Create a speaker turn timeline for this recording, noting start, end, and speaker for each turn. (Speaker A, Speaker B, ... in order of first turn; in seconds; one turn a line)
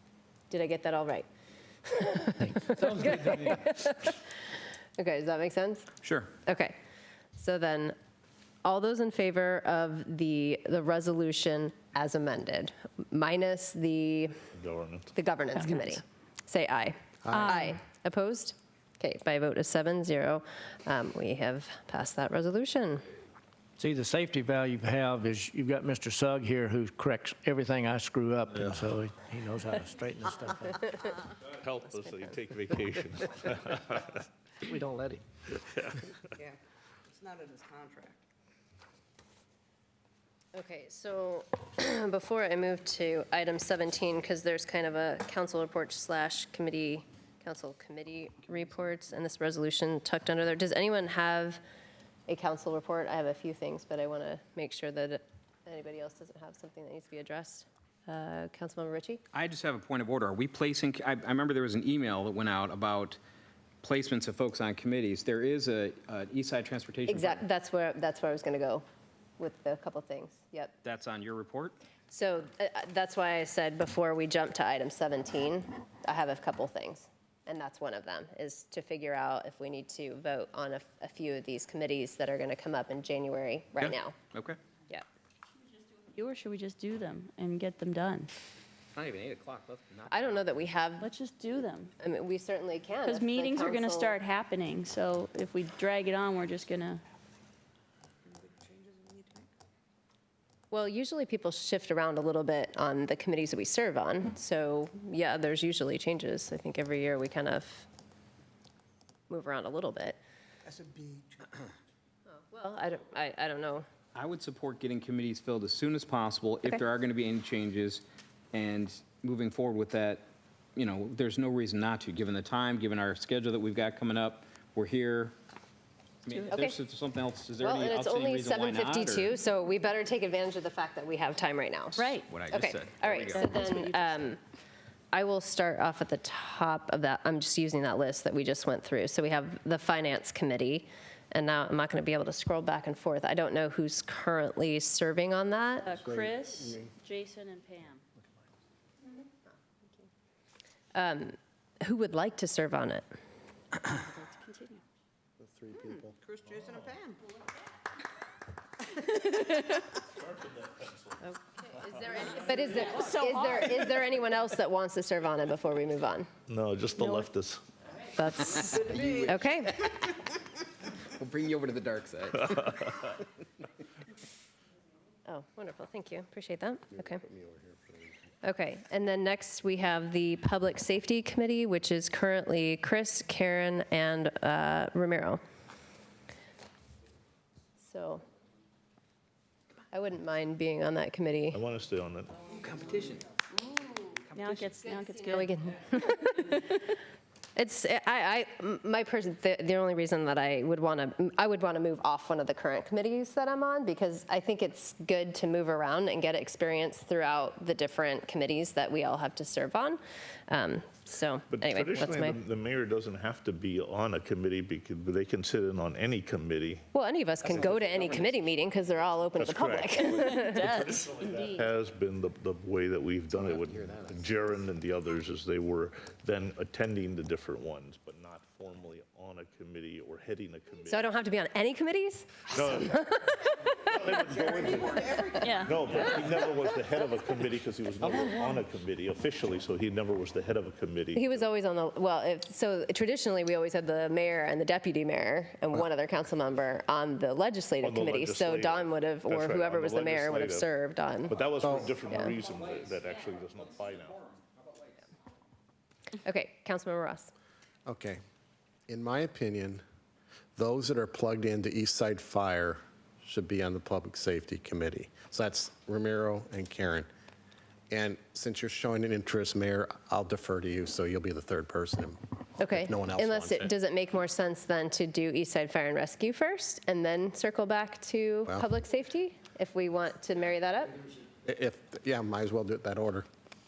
Speaker A: 0.5-1.3
Speaker A: 1.8-4.2
Speaker A: 5.0-5.9
Speaker B: 6.0-6.3
Speaker A: 6.5-6.8
Speaker A: 7.4-8.0
Speaker A: 8.6-14.4
Speaker C: 14.6-15.1
Speaker A: 15.2-23.0
Speaker D: 17.3-17.5
Speaker E: 17.3-17.7
Speaker F: 23.8-30.8
Speaker C: 31.4-34.2
Speaker F: 34.7-35.2
Speaker C: 35.5-36.2
Speaker G: 37.1-38.1
Speaker A: 40.5-51.6
Speaker A: 52.3-59.2
Speaker B: 59.3-63.2
Speaker B: 63.8-67.4
Speaker A: 67.1-68.8
Speaker A: 69.4-70.7
Speaker B: 70.8-71.8
Speaker A: 72.1-84.1
Speaker B: 83.8-84.6
Speaker E: 86.1-88.3
Speaker B: 89.0-90.2
Speaker A: 90.1-91.1
Speaker E: 91.0-91.9
Speaker A: 92.0-94.2
Speaker E: 93.0-97.0
Speaker G: 98.4-99.5
Speaker A: 100.7-107.9
Speaker A: 109.3-110.2
Speaker A: 112.3-113.9
Speaker B: 114.2-125.3
Speaker B: 126.3-129.4
Speaker A: 126.5-126.8
Speaker A: 127.6-134.4
Speaker E: 132.0-132.3
Speaker B: 132.1-134.4
Speaker A: 135.1-145.9
Speaker E: 145.8-148.0
Speaker D: 145.9-146.9
Speaker A: 150.9-153.1
Speaker E: 153.9-154.8
Speaker D: 155.4-156.2
Speaker G: 156.2-157.2
Speaker C: 156.5-157.0
Speaker C: 160.0-161.2
Speaker A: 161.2-166.3
Speaker C: 161.8-163.0
Speaker E: 163.0-163.7
Speaker C: 166.5-167.6
Speaker A: 168.2-170.0
Speaker B: 168.7-169.5
Speaker B: 171.1-173.2
Speaker A: 175.3-177.2
Speaker D: 176.9-178.2
Speaker A: 178.4-185.4
Speaker A: 187.8-188.2
Speaker A: 189.9-191.6
Speaker C: 191.5-192.5
Speaker B: 192.5-193.2
Speaker B: 194.1-194.8
Speaker E: 194.3-195.6
Speaker A: 195.2-197.0
Speaker A: 197.6-212.4
Speaker C: 211.5-216.8
Speaker A: 216.9-220.7
Speaker B: 217.5-218.3
Speaker C: 219.4-231.1
Speaker E: 220.1-221.7
Speaker D: 223.3-224.6
Speaker A: 230.9-233.6
Speaker C: 232.5-241.5
Speaker G: 234.5-235.3
Speaker E: 235.4-235.8
Speaker A: 241.2-251.4
Speaker C: 247.8-250.7
Speaker C: 251.3-254.3
Speaker D: 251.6-251.9
Speaker A: 252.1-252.3
Speaker A: 256.2-257.3
Speaker D: 257.9-258.2
Speaker D: 258.9-259.8
Speaker D: 260.6-267.1
Speaker D: 267.9-273.7
Speaker A: 272.6-281.0
Speaker D: 281.4-283.3